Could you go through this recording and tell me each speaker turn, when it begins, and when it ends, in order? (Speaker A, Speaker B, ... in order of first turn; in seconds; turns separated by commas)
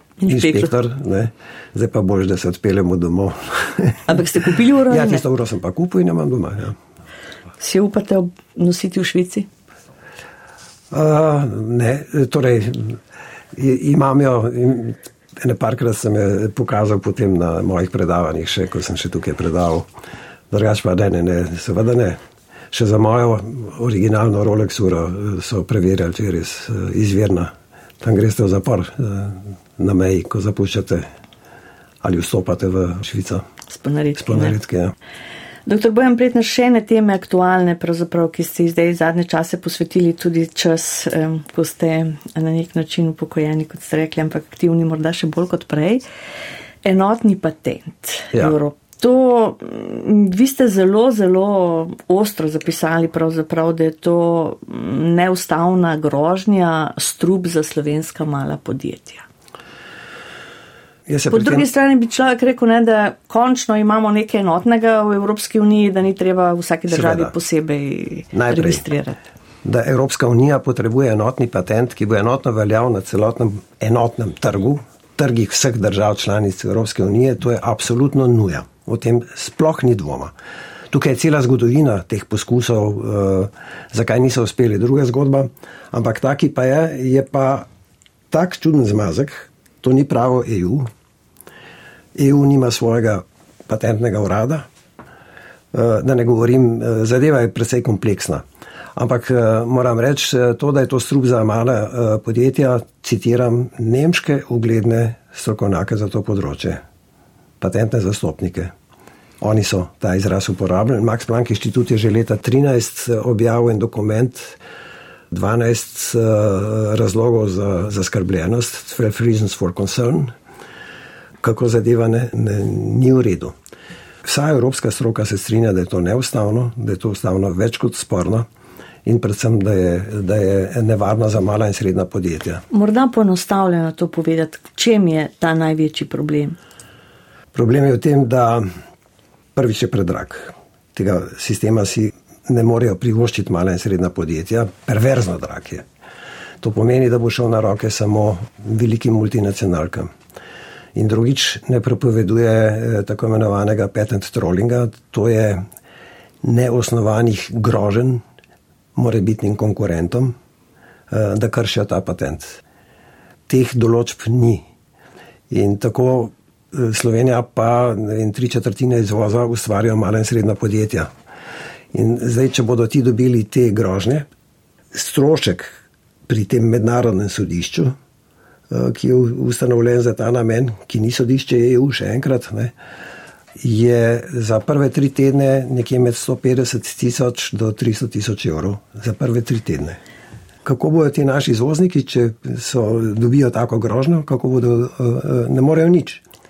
Speaker A: 0.2-0.7, Speaker B: 0.3-4.1, Speaker A: 4.1-5.2, Speaker B: 4.9-6.8, Speaker A: 7.6-9.5, Speaker B: 10.9-13.0, Speaker B: 13.5-19.9, Speaker B: 20.5-22.2, Speaker B: 22.7-31.1, Speaker B: 32.0-33.5, Speaker A: 33.7-34.6, Speaker B: 34.2-34.9, Speaker A: 35.7-46.0, Speaker A: 46.8-59.2, Speaker B: 61.1-61.7, Speaker A: 61.3-69.2, Speaker B: 66.9-67.3, Speaker B: 68.3-68.8, Speaker B: 69.6-80.3, Speaker B: 80.9-87.7, Speaker B: 88.3-90.9, Speaker B: 92.2-94.7, Speaker B: 95.7-98.4, Speaker B: 99.0-106.8, Speaker B: 107.6-108.7, Speaker B: 109.4-114.6, Speaker B: 115.3-120.3, Speaker B: 121.4-123.5, Speaker B: 124.2-128.4, Speaker B: 129.1-132.6, Speaker A: 132.7-136.6, Speaker B: 137.5-138.7, Speaker B: 139.6-145.8, Speaker B: 146.6-150.1, Speaker B: 150.9-155.7, Speaker B: 156.4-158.2, Speaker B: 159.0-160.3, Speaker B: 161.1-162.6, Speaker B: 163.5-164.7, Speaker B: 165.5-171.1, Speaker B: 171.9-174.3, Speaker B: 174.9-175.8, Speaker B: 176.3-177.9, Speaker B: 178.7-182.7, Speaker B: 183.6-190.0, Speaker B: 190.6-196.2